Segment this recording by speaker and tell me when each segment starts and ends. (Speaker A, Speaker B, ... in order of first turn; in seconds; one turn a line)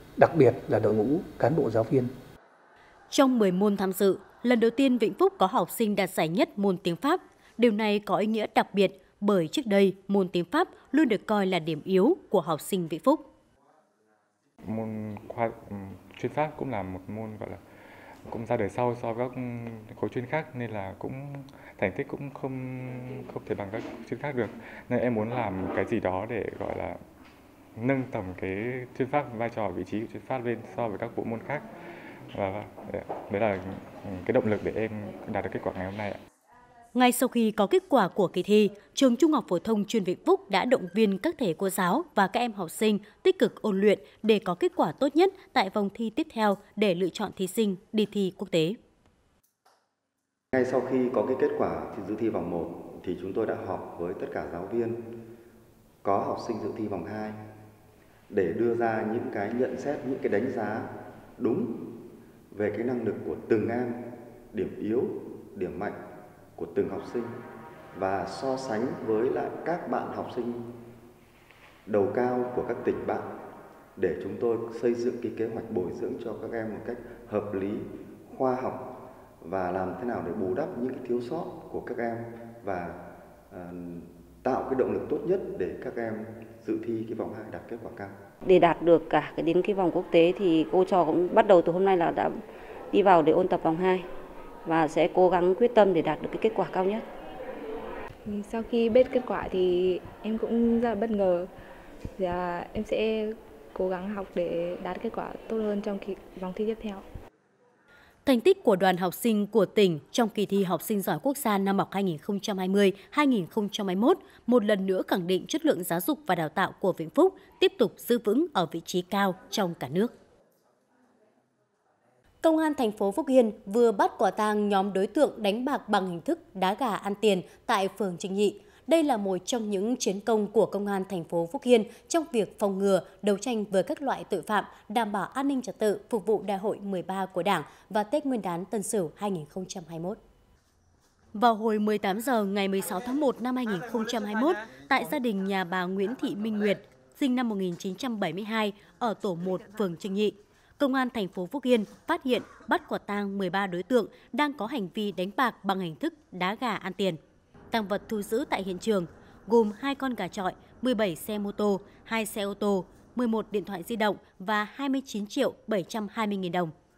Speaker A: 0.2-2.1
Speaker B: 3.1-13.3
Speaker C: 14.6-17.6
Speaker C: 18.3-27.0
Speaker C: 27.8-31.6
Speaker C: 32.3-36.2
Speaker B: 36.9-48.8
Speaker D: 50.5-55.0
Speaker D: 56.0-57.4
Speaker D: 58.3-61.8
Speaker D: 62.5-66.0
Speaker D: 66.6-67.3
Speaker D: 67.9-70.6
Speaker D: 71.8-73.3
Speaker D: 74.0-78.9
Speaker D: 79.4-83.0
Speaker D: 83.5-88.2
Speaker E: 88.4-92.4
Speaker E: 92.9-94.0
Speaker E: 94.6-97.0
Speaker F: 98.2-101.5
Speaker F: 102.2-107.0
Speaker B: 108.2-120.1
Speaker B: 122.4-140.2
Speaker B: 141.3-157.2
Speaker B: 157.7-166.7